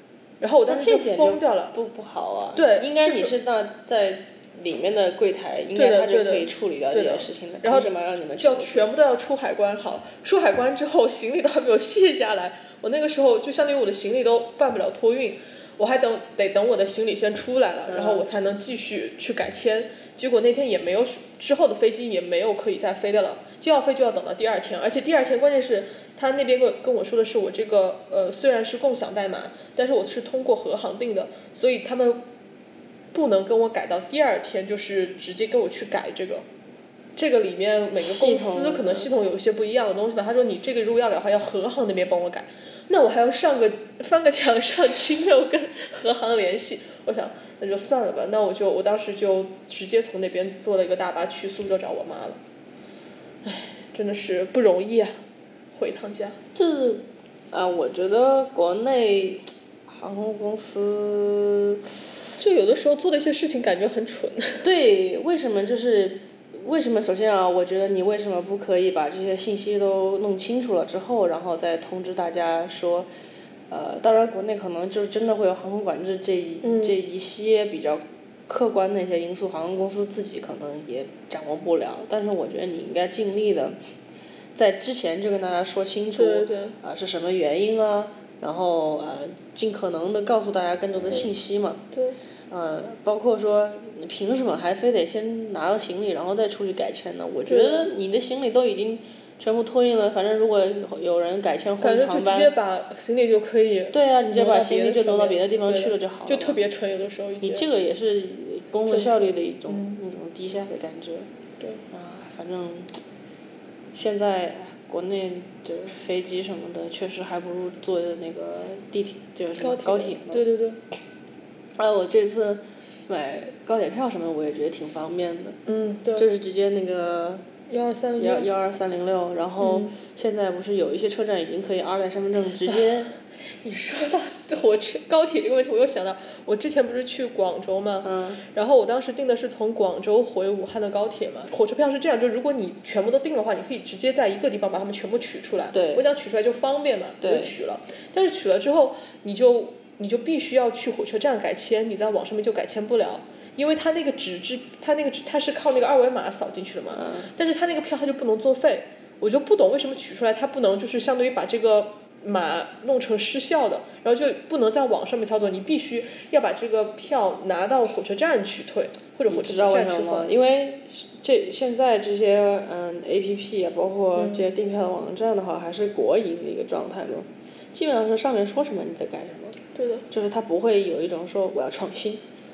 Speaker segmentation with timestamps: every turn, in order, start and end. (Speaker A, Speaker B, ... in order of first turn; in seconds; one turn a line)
Speaker A: 0.4-1.7
Speaker B: 0.7-8.9
Speaker A: 2.5-3.3
Speaker A: 5.7-32.2
Speaker B: 17.9-18.3
Speaker A: 33.1-36.4
Speaker A: 37.1-52.4
Speaker B: 37.9-39.1
Speaker A: 53.4-55.1
Speaker A: 55.7-56.4
Speaker B: 56.5-61.9
Speaker A: 62.4-64.6
Speaker B: 64.6-73.1
Speaker B: 73.7-83.8
Speaker A: 76.6-76.9
Speaker B: 84.5-91.8
Speaker A: 86.2-86.8
Speaker B: 92.5-102.5
Speaker A: 97.5-97.9
Speaker A: 101.8-107.7
Speaker B: 103.9-106.6
Speaker B: 107.4-111.3
Speaker A: 108.9-109.9
Speaker B: 111.9-113.0
Speaker B: 113.9-120.4
Speaker A: 119.6-120.8
Speaker B: 121.8-125.6
Speaker A: 125.7-126.3
Speaker B: 126.2-127.4
Speaker A: 127.7-128.5
Speaker B: 128.2-133.1
Speaker A: 129.6-129.9
Speaker A: 133.6-170.3
Speaker B: 138.0-138.4
Speaker B: 145.7-146.1
Speaker B: 147.2-147.5
Speaker B: 156.9-157.3
Speaker B: 169.3-179.6
Speaker A: 174.2-174.5
Speaker A: 179.7-180.1
Speaker B: 180.1-182.2